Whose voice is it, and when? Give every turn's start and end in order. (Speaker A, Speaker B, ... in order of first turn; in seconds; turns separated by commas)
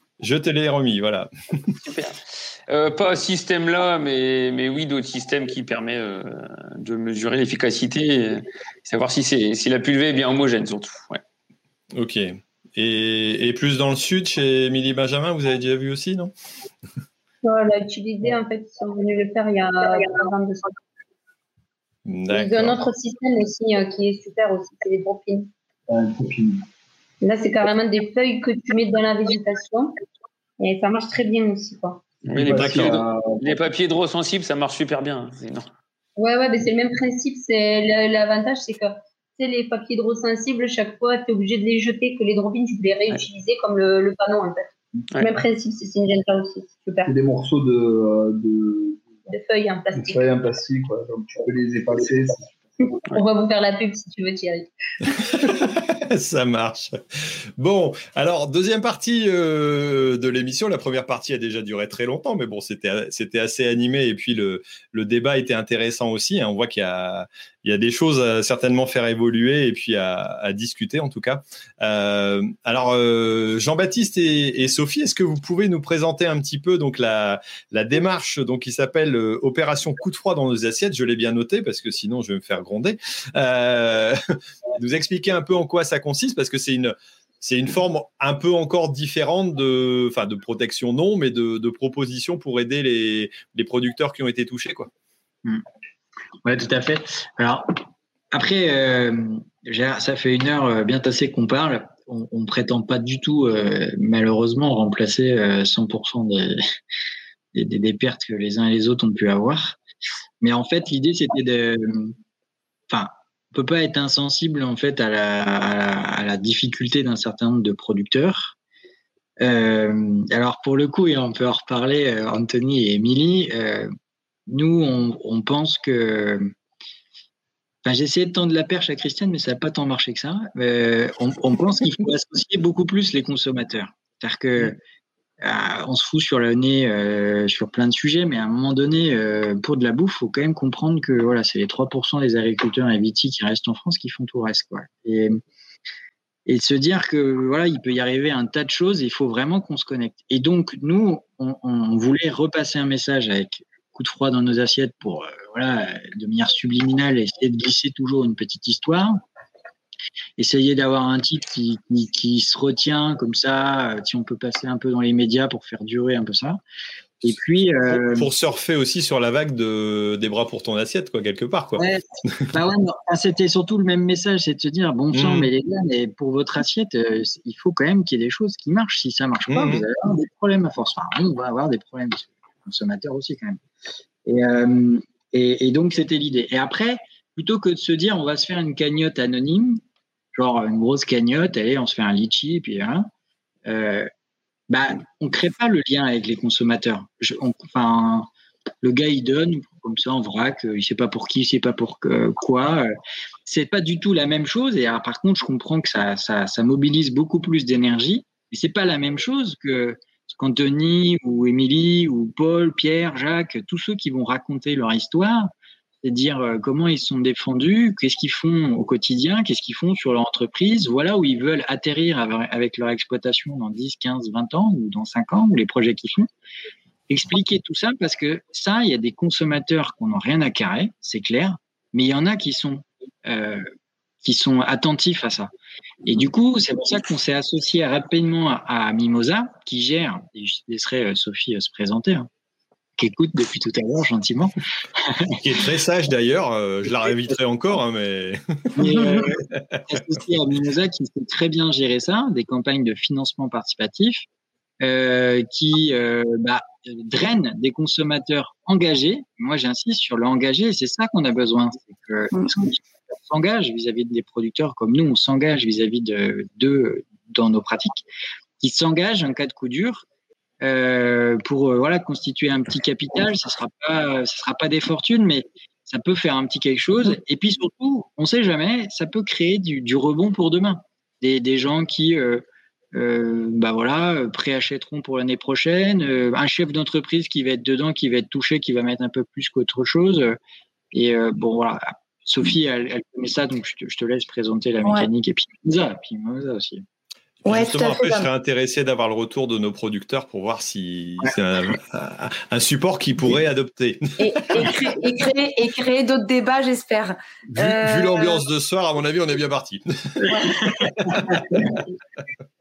Speaker A: 0.2-1.7, Speaker B: 1.8-2.2, Speaker B: 2.7-11.2, Speaker A: 11.9-16.3, Speaker C: 17.4-20.7, Speaker A: 22.1-22.8, Speaker C: 22.3-25.5, Speaker D: 25.9-26.6, Speaker C: 27.2-29.9, Speaker C: 30.6-32.0, Speaker D: 32.2-33.4, Speaker B: 32.3-35.7, Speaker C: 36.2-47.1, Speaker D: 47.0-49.1, Speaker C: 49.3-50.2, Speaker D: 49.9-52.5, Speaker C: 53.0-54.7, Speaker A: 55.2-84.2, Speaker A: 84.8-94.9, Speaker E: 96.4-97.7, Speaker E: 98.3-106.6, Speaker E: 107.5-109.8, Speaker E: 110.4-112.1, Speaker E: 112.9-118.5, Speaker E: 119.4-123.9, Speaker E: 124.5-126.5, Speaker E: 127.8-134.8, Speaker E: 135.4-145.4, Speaker E: 146.4-159.2, Speaker E: 160.4-166.6, Speaker E: 167.2-168.3, Speaker A: 167.9-171.8, Speaker E: 171.8-183.6, Speaker A: 175.1-175.5, Speaker A: 179.5-179.8, Speaker E: 184.2-189.8, Speaker E: 190.3-193.1, Speaker E: 193.7-194.1, Speaker E: 194.7-198.3, Speaker E: 198.8-202.9, Speaker E: 203.4-215.5, Speaker E: 216.0-226.3, Speaker E: 227.1-233.7, Speaker E: 234.2-235.5, Speaker E: 236.0-242.3, Speaker E: 243.0-244.6, Speaker A: 245.4-249.8, Speaker E: 248.8-254.2, Speaker E: 254.8-268.0, Speaker E: 268.6-270.0, Speaker E: 270.6-290.4, Speaker E: 290.9-296.8, Speaker A: 297.4-304.7, Speaker F: 297.4-298.3, Speaker F: 304.2-308.4, Speaker A: 307.5-311.6, Speaker E: 310.6-311.4